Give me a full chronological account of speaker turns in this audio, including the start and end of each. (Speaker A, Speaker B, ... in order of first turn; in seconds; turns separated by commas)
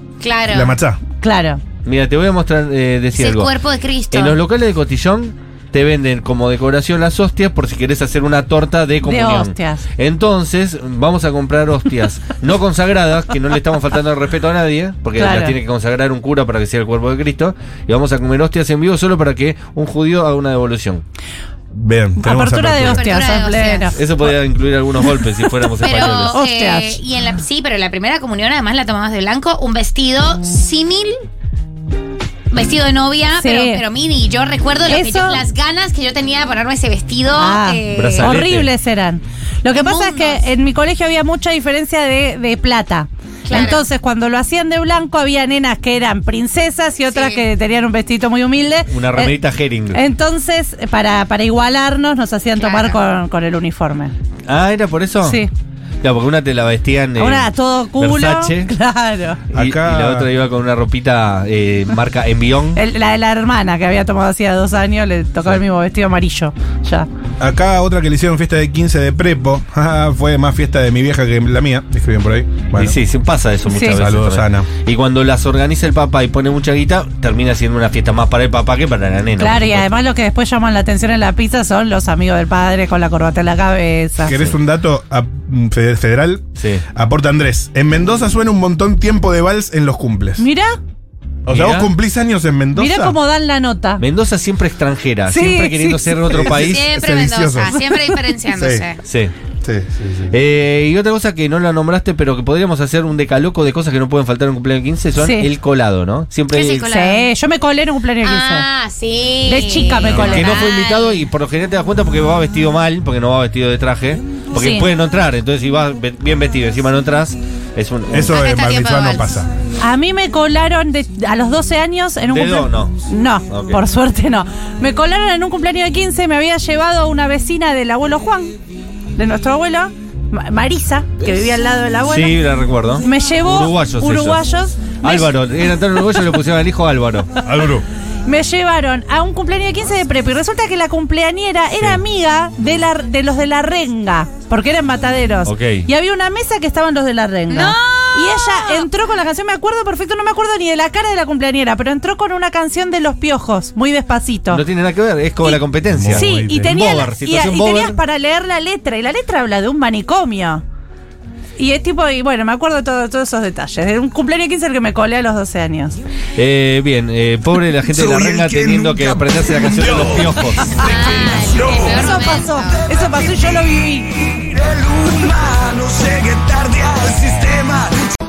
Speaker A: 0.2-0.7, Speaker B: 0.5-1.0, Speaker C: 1.2-1.6, Speaker D: 1.8-3.5, Speaker A: 3.1-4.4, Speaker D: 4.1-21.0, Speaker C: 9.0-9.8, Speaker C: 15.2-15.6, Speaker B: 21.7-23.1, Speaker C: 22.2-24.0, Speaker A: 22.8-23.9, Speaker D: 23.9-26.4, Speaker A: 25.8-31.2, Speaker C: 25.9-27.0, Speaker A: 32.5-38.5, Speaker C: 33.4-33.8, Speaker C: 34.9-35.4, Speaker C: 37.3-49.4, Speaker D: 37.9-38.7, Speaker A: 39.7-40.4, Speaker A: 43.5-43.9, Speaker A: 47.1-47.4, Speaker D: 48.9-50.0, Speaker C: 49.9-54.1, Speaker A: 52.6-53.0, Speaker D: 54.5-55.4, Speaker C: 55.2-55.5, Speaker D: 56.0-58.7, Speaker C: 57.2-59.4, Speaker D: 59.5-62.8, Speaker B: 59.5-60.3, Speaker C: 62.7-67.1, Speaker B: 67.4-73.0, Speaker D: 72.7-79.8, Speaker C: 73.7-74.0, Speaker B: 73.9-74.7, Speaker C: 79.4-84.4, Speaker B: 84.2-90.5, Speaker D: 86.6-86.8, Speaker C: 90.4-90.8, Speaker B: 91.4-93.2, Speaker D: 91.5-91.9, Speaker C: 92.7-94.0, Speaker D: 94.0-96.8, Speaker C: 95.3-96.4, Speaker B: 96.3-97.9, Speaker A: 96.4-99.0, Speaker B: 98.5-98.9, Speaker D: 99.0-99.3, Speaker B: 99.6-100.3, Speaker D: 100.3-106.9, Speaker C: 105.2-105.5, Speaker A: 106.5-107.3, Speaker C: 106.9-108.7, Speaker A: 108.2-111.2, Speaker C: 109.5-110.6, Speaker D: 110.1-118.4, Speaker C: 114.5-114.9, Speaker B: 118.1-119.5, Speaker A: 118.3-119.3, Speaker C: 119.8-128.5, Speaker D: 122.2-123.0, Speaker D: 123.5-123.8, Speaker C: 129.2-132.4, Speaker D: 132.1-134.4, Speaker C: 133.0-135.3, Speaker D: 135.0-137.3, Speaker B: 137.4-137.8, Speaker C: 138.2-154.6, Speaker D: 145.4-145.9, Speaker A: 147.5-148.9, Speaker D: 154.5-158.0, Speaker C: 155.4-160.6, Speaker B: 155.9-156.8, Speaker C: 161.6-166.0, Speaker D: 166.3-170.8, Speaker B: 168.2-168.7, Speaker A: 170.7-172.8, Speaker C: 171.6-174.4, Speaker B: 174.5-177.9